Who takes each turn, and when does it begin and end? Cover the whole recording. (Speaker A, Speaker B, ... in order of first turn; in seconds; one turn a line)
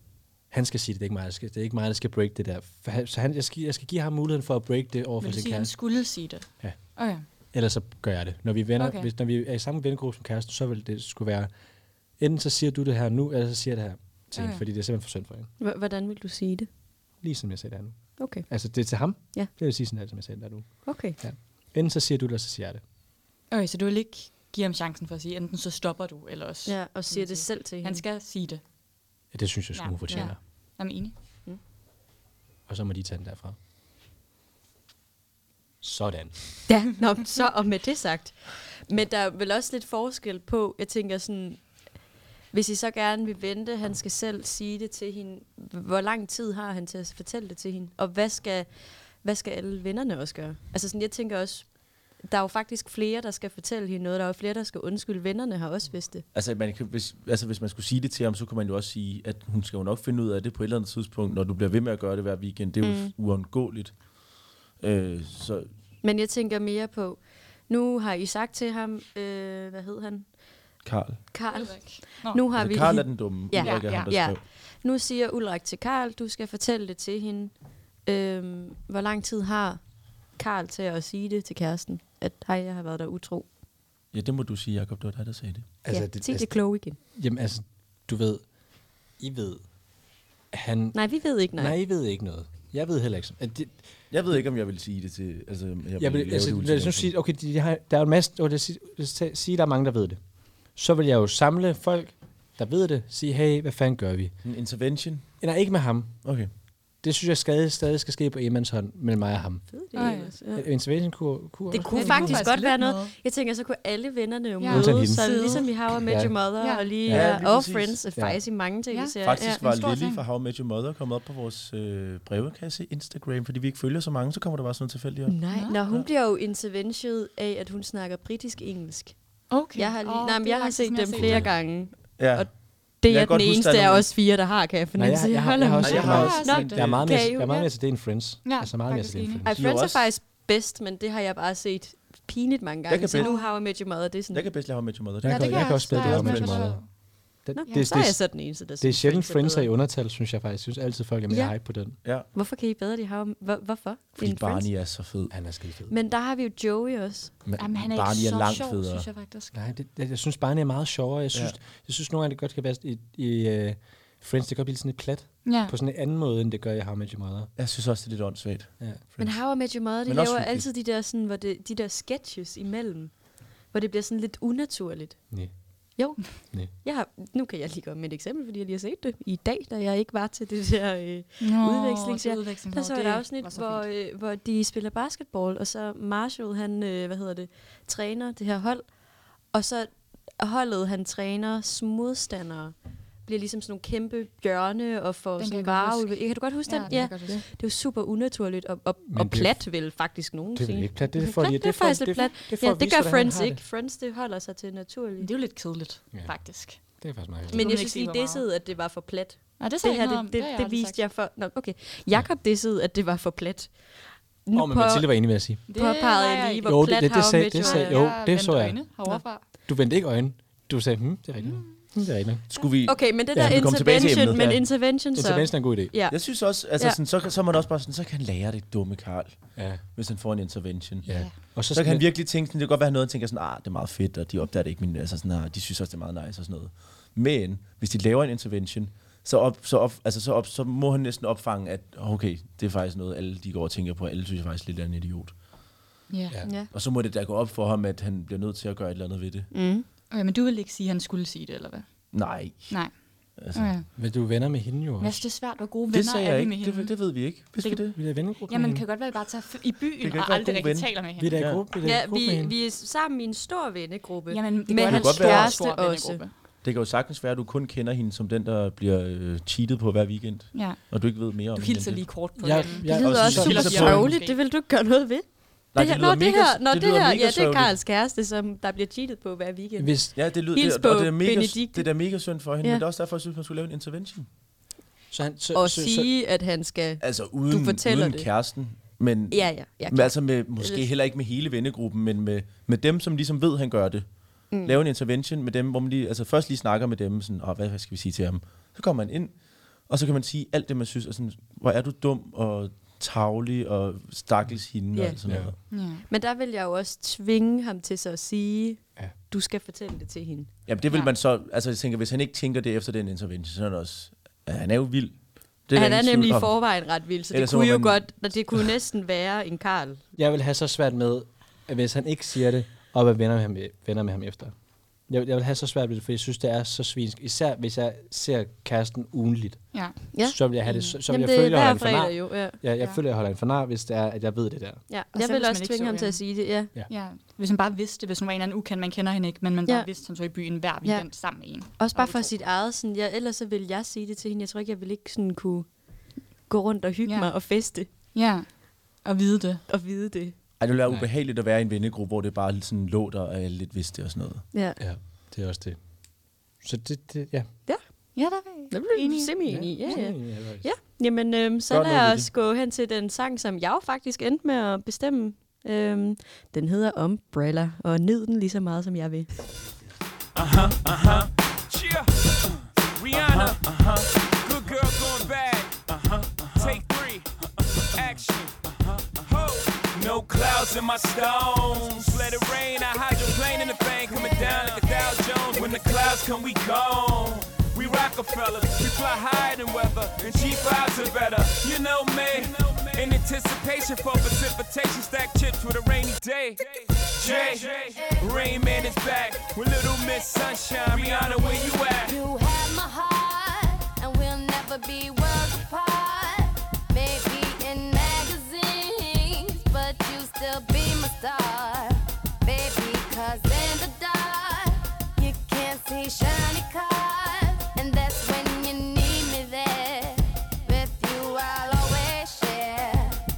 Speaker A: 0.5-5.9
Speaker B: 5.2-7.3
Speaker A: 6.6-11.5
Speaker B: 8.8-9.1
Speaker A: 12.2-15.5
Speaker B: 14.4-14.6
Speaker C: 15.6-16.7
Speaker A: 17.2-22.8
Speaker C: 18.2-18.5
Speaker C: 20.9-21.2
Speaker B: 23.5-28.6
Speaker C: 26.7-28.0
Speaker A: 29.3-30.4
Speaker B: 29.8-31.1
Speaker A: 32.7-33.6
Speaker A: 35.8-36.6
Speaker C: 36.7-41.7
Speaker C: 42.5-48.7
Speaker C: 49.2-56.2
Speaker D: 56.3-64.0
Speaker C: 62.8-63.1
Speaker D: 64.8-65.7
Speaker C: 66.0-70.3
Speaker D: 70.8-71.2
Speaker C: 71.3-77.5
Speaker B: 71.5-72.9
Speaker D: 72.5-74.4
Speaker B: 73.6-74.1
Speaker C: 78.0-79.8
Speaker C: 80.3-83.5
Speaker D: 84.1-85.7
Speaker A: 85.8-88.4
Speaker C: 85.9-87.0
Speaker A: 89.2-89.7
Speaker A: 90.5-93.8
Speaker C: 90.9-91.8
Speaker D: 94.1-97.1
Speaker A: 96.0-100.2
Speaker A: 100.8-104.3
Speaker D: 104.4-105.3
Speaker A: 105.4-106.2
Speaker D: 106.2-106.5
Speaker A: 107.0-109.7
Speaker C: 109.7-110.7
Speaker B: 110.0-110.3
Speaker A: 110.5-112.5
Speaker C: 111.7-119.6
Speaker B: 111.7-113.1
Speaker B: 114.6-115.8
Speaker A: 114.7-116.4
Speaker B: 116.6-116.9
Speaker A: 117.0-117.4
Speaker D: 117.1-118.0
Speaker B: 118.9-120.2
Speaker D: 119.2-125.4
Speaker C: 125.3-137.7
Speaker B: 125.5-125.8
Speaker B: 129.5-131.5
Speaker A: 131.2-131.6
Speaker D: 132.2-134.1
Speaker A: 135.0-139.5
Speaker D: 135.8-137.1
Speaker B: 135.9-136.9
Speaker B: 138.4-139.5
Speaker C: 139.4-144.5
Speaker D: 139.5-140.1
Speaker D: 142.9-143.4
Speaker B: 143.1-143.5
Speaker D: 144.3-146.7
Speaker A: 145.2-152.0
Speaker B: 145.2-146.9
Speaker C: 147.5-149.7
Speaker C: 151.3-151.6
Speaker C: 152.3-154.7
Speaker D: 154.2-155.3
Speaker A: 155.3-155.9
Speaker C: 155.9-157.3
Speaker D: 157.4-159.1
Speaker B: 157.6-159.6
Speaker A: 159.5-167.5
Speaker B: 165.4-165.7
Speaker D: 167.6-169.5
Speaker C: 169.2-173.2
Speaker D: 170.1-170.7
Speaker C: 173.7-175.2
Speaker C: 176.0-188.9
Speaker B: 181.4-183.9
Speaker C: 189.5-205.3
Speaker B: 195.4-197.4
Speaker A: 196.9-197.4
Speaker A: 199.1-199.9
Speaker A: 200.5-203.6
Speaker B: 205.2-206.8
Speaker A: 206.1-207.7
Speaker B: 207.5-208.4
Speaker C: 207.5-213.8
Speaker B: 209.6-211.0
Speaker C: 214.4-218.1
Speaker A: 214.5-215.6
Speaker B: 215.7-219.4
Speaker A: 216.7-218.9
Speaker A: 219.5-222.4
Speaker B: 221.4-221.8
Speaker D: 222.5-224.6
Speaker C: 222.8-227.0
Speaker A: 223.3-223.8
Speaker A: 225.1-225.9
Speaker D: 226.1-245.4
Speaker A: 229.6-229.8
Speaker B: 231.0-231.3
Speaker A: 231.1-232.1
Speaker B: 246.1-246.4
Speaker C: 246.4-246.7
Speaker D: 246.7-249.5
Speaker C: 249.5-249.9
Speaker B: 250.1-253.9
Speaker D: 252.1-253.7
Speaker A: 254.0-255.2
Speaker B: 255.0-257.9
Speaker D: 255.9-258.0
Speaker A: 258.0-258.9
Speaker B: 258.5-261.5
Speaker D: 260.0-261.6
Speaker A: 261.2-262.6
Speaker C: 261.8-266.2
Speaker B: 264.3-266.3
Speaker D: 264.9-265.6
Speaker D: 266.6-272.1
Speaker B: 270.5-274.4
Speaker A: 272.4-274.1
Speaker D: 272.9-274.0
Speaker C: 272.9-281.9
Speaker D: 275.7-277.8
Speaker A: 279.8-280.1
Speaker D: 280.2-284.3
Speaker A: 285.1-286.1
Speaker C: 285.5-288.3
Speaker D: 287.0-294.1
Speaker C: 289.3-290.9
Speaker C: 294.5-294.8
Speaker D: 294.6-305.6
Speaker C: 304.9-310.5
Speaker A: 305.3-305.5
Speaker B: 305.7-306.0
Speaker D: 310.7-316.6
Speaker B: 310.9-311.1
Speaker C: 315.7-320.0
Speaker D: 317.3-318.6
Speaker A: 320.1-324.6
Speaker A: 325.1-334.8
Speaker B: 329.7-330.0
Speaker C: 330.1-330.4
Speaker B: 330.6-331.0
Speaker C: 331.1-332.6
Speaker C: 334.9-336.7
Speaker B: 335.1-336.4
Speaker B: 336.9-342.3
Speaker C: 341.7-347.9
Speaker B: 347.1-349.6
Speaker C: 349.7-350.4
Speaker D: 350.6-354.4
Speaker C: 354.5-354.8
Speaker A: 354.8-355.8
Speaker A: 356.6-357.5
Speaker C: 357.7-358.1
Speaker B: 358.1-359.3
Speaker C: 358.7-369.3
Speaker A: 359.4-360.7
Speaker D: 361.7-362.3
Speaker E: 370.4-402.2
Speaker F: 402.1-423.2